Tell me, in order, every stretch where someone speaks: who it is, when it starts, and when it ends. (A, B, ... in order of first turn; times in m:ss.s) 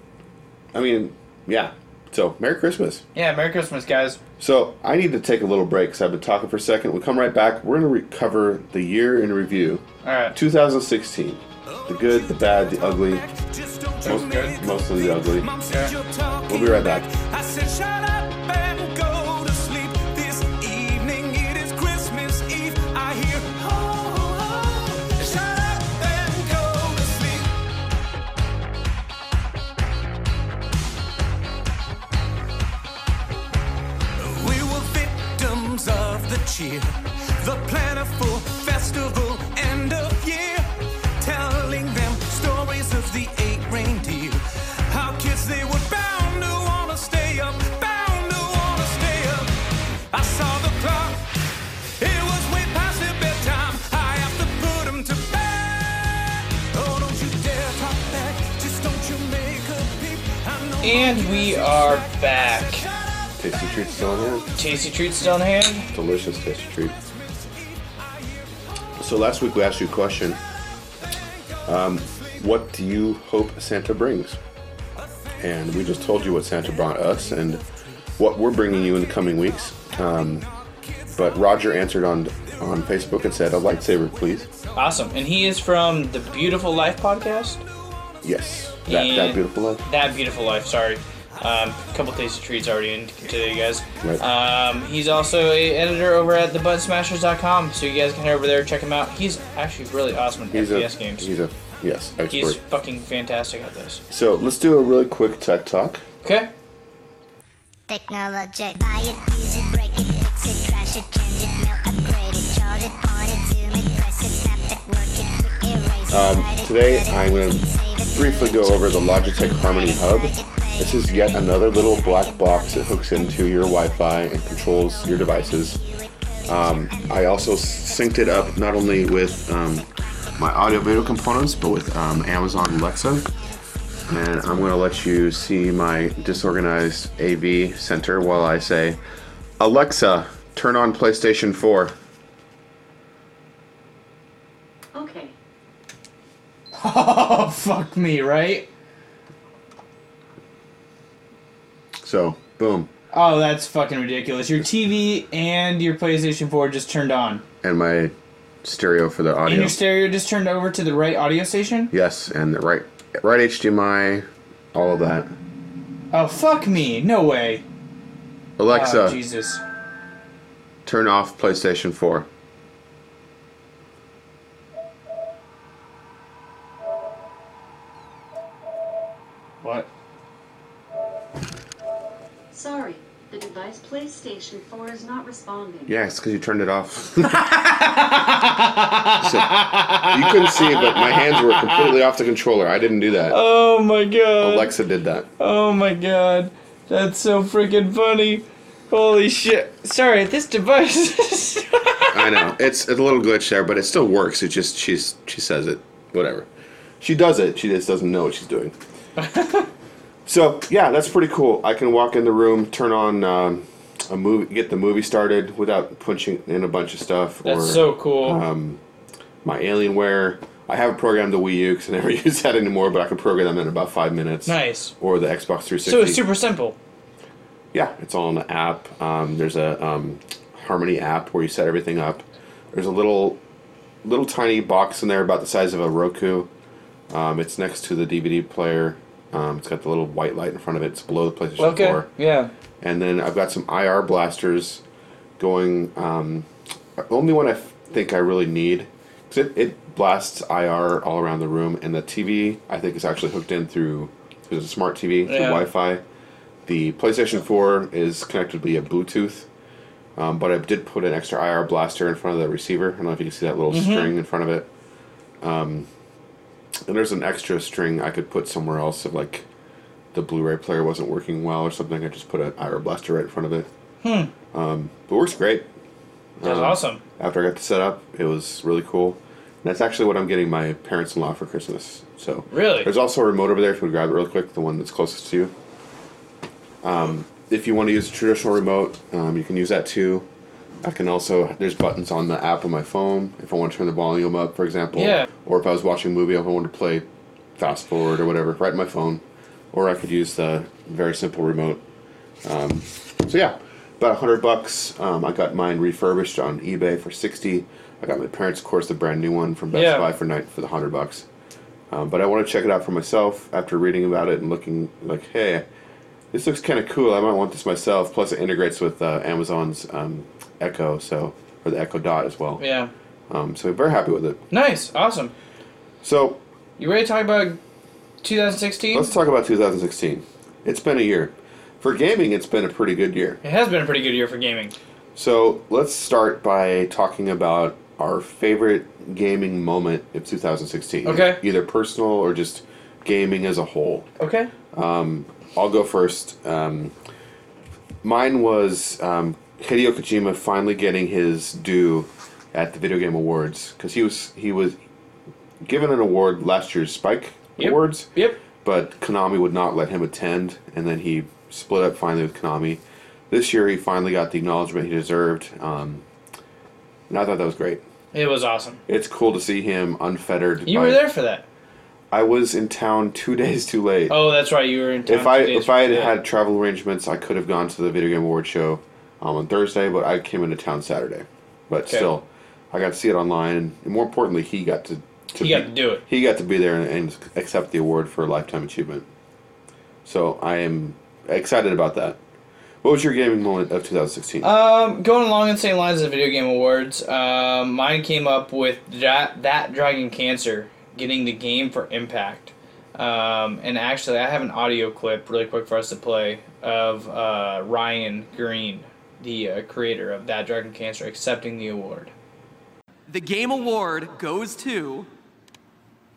0:00.7-0:03.0 A
0:03.1-0:04.2 B
0:04.4-0:13.2 A
0:10.0-0:10.4 B
0:11.6-0:27.5 C
0:14.0-0:15.5 A
0:15.7-0:15.9 B
0:16.5-0:17.1 A
0:34.2-0:49.5 C
0:50.1-0:51.3 C
0:52.0-1:09.0 C
1:00.8-1:02.8 B
1:03.4-1:04.5 A
1:04.6-1:05.9 B
1:05.9-1:06.9 A
1:09.0-1:10.4 A
1:10.2-1:10.4 C
1:11.0-1:12.6 C
1:11.6-1:14.4 A
1:15.0-1:17.6 C
1:15.4-1:17.6 A
1:18.2-1:20.5 A
1:18.6-1:25.3 C
1:21.1-1:24.5 A
1:24.7-1:27.6 B
1:26.2-1:26.8 C
1:27.6-1:28.6 C
1:28.2-1:29.8 A
1:28.8-1:41.3 B
1:40.5-1:42.6 A
1:42.3-1:44.0 B
1:44.1-1:46.0 A
1:46.2-1:46.5 B
1:47.9-2:09.8 D
1:56.1-2:05.8 A
2:06.4-2:13.3 A
2:10.5-2:12.6 D
2:13.2-2:13.5 D
2:14.1-2:16.0 D
2:14.1-2:19.0 A
2:19.6-2:21.9 A
2:24.9-2:25.3 E
2:26.7-2:28.7 B
2:32.0-2:32.9 A
2:33.1-2:37.4 B
2:37.6-2:39.8 A
2:39.4-2:41.9 B
2:41.9-2:45.3 A
2:46.1-2:47.6 B
2:48.6-2:49.2 A
2:48.7-2:49.6 B
2:50.8-2:52.3 A
2:59.6-2:59.9 B
3:02.5-3:06.0 E
3:05.9-3:07.4 A
3:07.2-3:11.9 B
3:09.2-3:13.4 A
3:13.3-3:14.7 B
3:14.4-3:15.3 A
3:15.4-3:22.5 B
3:22.1-3:26.5 A
3:27.0-3:28.8 A
3:29.2-3:29.7 B
3:30.2-3:38.8 A
3:37.4-3:38.4 B
3:39.4-3:46.2 A
3:44.4-3:44.9 B
3:45.8-3:46.8 B
3:47.7-3:53.4 A
3:54.0-3:56.5 A
3:57.1-4:02.1 A
4:01.6-4:02.5 B
4:02.8-4:04.8 A
4:05.4-4:06.5 A
4:07.0-4:16.0 A
4:15.2-4:15.6 B
4:16.6-4:19.5 A
4:20.2-4:24.7 A
4:23.7-4:24.1 B
4:25.4-4:25.9 A
4:26.8-4:29.4 A
4:30.1-4:33.7 A
4:34.0-4:34.3 B
4:34.5-4:35.7 A
4:36.4-4:45.5 A
4:36.4-4:37.0 B
4:42.5-4:42.9 B
4:46.8-4:50.3 A
4:50.8-4:57.0 A
4:54.9-4:55.3 B
4:57.6-5:01.8 A
5:02.4-5:11.2 A
5:09.7-5:10.1 B
5:11.9-5:15.6 A
5:16.3-5:22.6 A
5:22.6-5:22.9 B
5:23.3-5:24.4 A
5:24.5-5:25.3 B
5:26.0-5:26.4 A
5:26.8-5:27.6 B
5:28.2-5:29.1 B
5:28.9-5:33.4 A
5:33.4-5:34.7 B
5:35.1-5:44.1 A
5:41.0-5:41.4 B
5:44.2-5:44.5 B
5:44.7-5:46.9 A
5:48.0-5:54.8 A
5:55.6-6:06.0 A
5:57.6-5:58.4 B
6:07.1-6:07.8 A
6:08.1-6:08.8 B
6:08.9-6:11.0 A
6:10.6-6:11.4 B
6:12.1-6:14.2 A
6:14.1-6:16.1 B
6:15.0-6:29.1 A
6:25.4-6:26.0 B
6:30.0-6:32.2 A
6:32.8-6:34.5 A
6:34.4-6:52.1 B
6:53.1-6:55.1 F